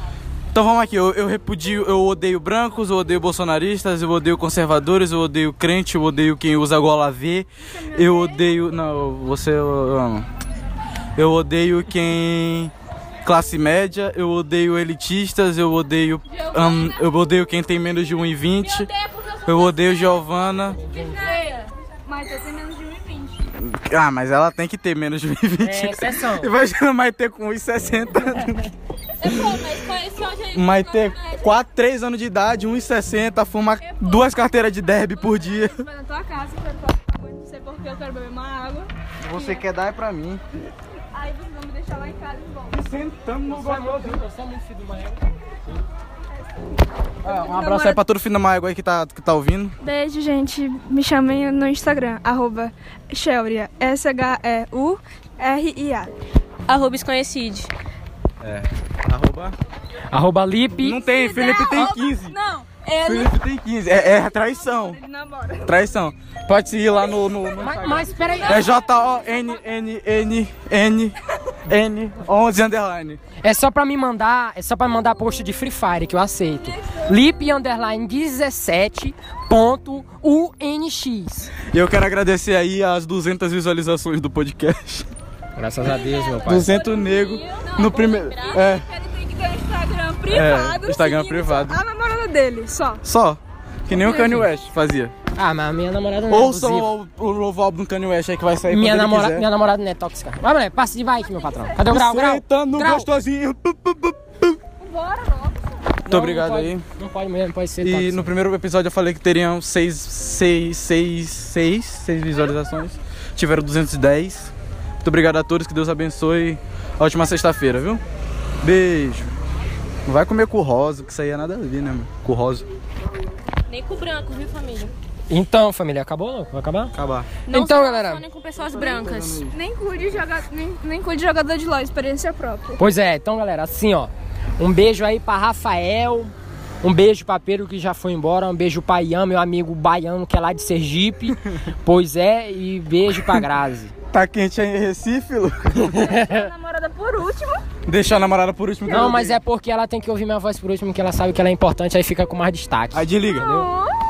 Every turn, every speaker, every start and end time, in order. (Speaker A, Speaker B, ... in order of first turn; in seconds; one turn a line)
Speaker A: 0.5-10.3
Speaker B: 7.6-8.5
Speaker A: 11.2-12.7
Speaker A: 13.2-18.9
Speaker C: 16.6-17.0
Speaker C: 18.6-20.2
Speaker A: 19.4-20.8
Speaker D: 20.7-21.3
Speaker C: 21.1-21.6
Speaker B: 21.2-23.4
Speaker A: 23.6-28.6
Speaker D: 25.6-26.5
Speaker C: 29.2-31.5
Speaker A: 30.5-35.8
Speaker B: 33.9-34.3
Speaker B: 34.9-39.7
Speaker A: 39.2-40.4
Speaker B: 41.1-42.8
Speaker A: 42.7-44.2
Speaker D: 43.5-45.8
Speaker B: 46.3-46.7
Speaker B: 47.2-48.0
Speaker A: 47.2-49.8
Speaker B: 49.8-56.1
Speaker C: 56.7-57.7
Speaker A: 58.4-59.6
Speaker D: 60.1-61.0
Speaker A: 60.8-62.4
Speaker B: 61.0-63.3
Speaker A: 63.0-65.0
Speaker B: 64.2-65.7
Speaker A: 65.6-73.2
Speaker D: 67.6-68.7
Speaker B: 68.1-69.6
Speaker D: 73.4-81.6
Speaker B: 76.6-77.2
Speaker A: 81.7-85.1
Speaker D: 85.6-86.8
Speaker C: 85.9-88.6
Speaker A: 86.5-88.9
Speaker B: 87.6-93.0
Speaker A: 90.3-91.8
Speaker A: 93.0-95.1
Speaker D: 93.9-94.5
Speaker D: 95.4-96.9
Speaker A: 96.3-99.5
Speaker D: 98.7-103.1
Speaker A: 101.9-104.6
Speaker B: 104.8-106.0
Speaker A: 106.1-106.8
Speaker D: 106.1-108.3
Speaker A: 107.8-114.5
Speaker A: 115.0-118.0
Speaker A: 118.6-119.3
Speaker A: 120.1-122.7
Speaker C: 123.7-124.9
Speaker D: 125.3-127.0
Speaker A: 127.0-127.3
Speaker D: 127.5-128.2
Speaker C: 127.5-129.5
Speaker A: 128.6-129.6
Speaker B: 129.5-132.8
Speaker D: 132.8-143.9
Speaker A: 144.1-146.0
Speaker D: 145.9-146.5
Speaker B: 146.1-147.7
Speaker A: 147.9-149.4
Speaker D: 148.9-153.7
Speaker A: 152.9-153.6
Speaker B: 153.4-153.9